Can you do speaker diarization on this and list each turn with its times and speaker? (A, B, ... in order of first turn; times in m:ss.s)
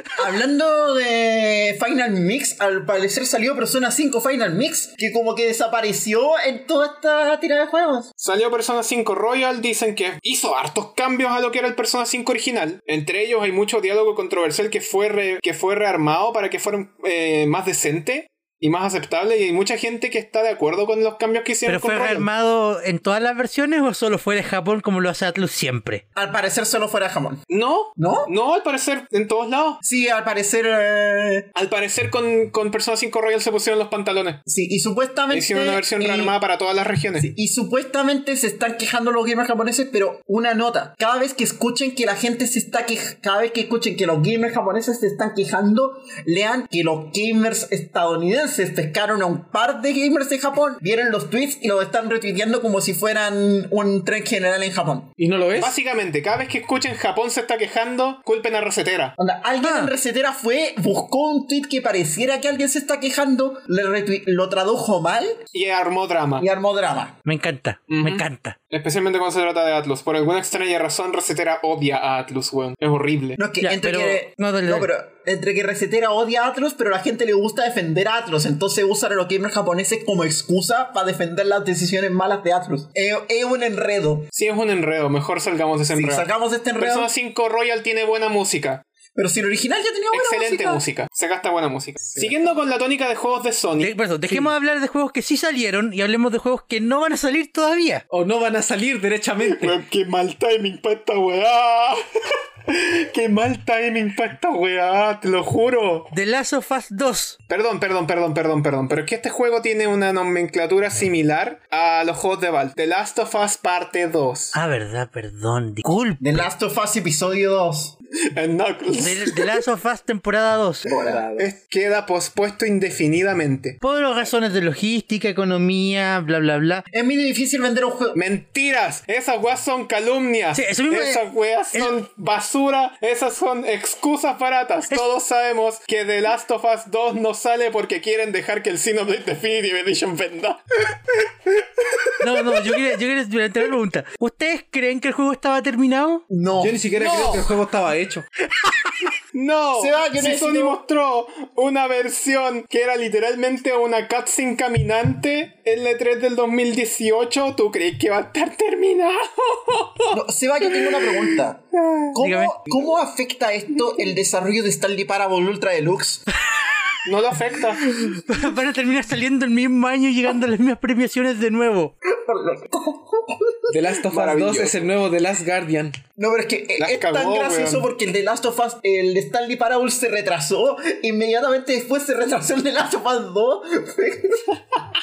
0:00.2-0:08.1 A
0:08.2-0:22.3 B
0:21.7-0:26.0 C
0:26.2-0:27.4 A
0:27.5-0:29.8 B
0:28.0-0:28.3 A
0:29.8-0:31.5 A
0:31.6-0:34.4 B
0:34.5-0:36.4 A
0:35.3-0:37.3 B
0:37.2-0:55.1 A
0:55.2-0:55.8 D
0:55.6-0:59.2 B
0:59.2-1:05.4 A
0:59.6-0:59.9 C
1:05.5-1:06.5 B
1:06.4-1:07.2 A
1:07.2-1:08.6 C
1:07.9-1:13.4 B
1:13.4-1:24.3 A
1:13.6-1:14.9 C
1:24.3-1:28.8 B
1:25.9-1:27.1 A
1:29.2-1:30.8 A
1:30.1-1:33.9 B
1:33.8-1:38.0 C
1:34.3-1:34.6 D
1:38.1-1:39.8 D
1:39.4-1:42.0 B
1:42.7-1:46.1 B
1:46.1-1:47.4 C
1:47.5-1:54.6 B
1:54.5-1:56.2 C
1:56.2-1:58.0 A
1:58.3-1:59.6 B
1:58.9-2:00.9 C
2:00.8-2:01.2 A
2:00.8-2:01.5 D
2:01.4-2:03.8 B
2:03.8-2:06.8 C
2:06.9-2:08.2 A
2:08.2-2:20.6 B
2:10.6-2:11.2 C
2:22.2-2:26.2 C
2:26.3-2:26.9 A
2:26.6-2:28.2 D
2:27.0-2:27.5 B
2:29.3-2:40.2 B
2:29.8-2:30.8 A
2:40.1-2:46.3 A
2:42.2-2:42.5 C
2:46.5-2:46.9 C
2:47.0-2:47.9 B
2:47.8-2:51.9 C
2:52.1-2:53.7 A
2:53.7-2:56.0 D
2:54.1-2:54.9 B
2:56.2-3:04.5 A
2:56.8-2:57.9 B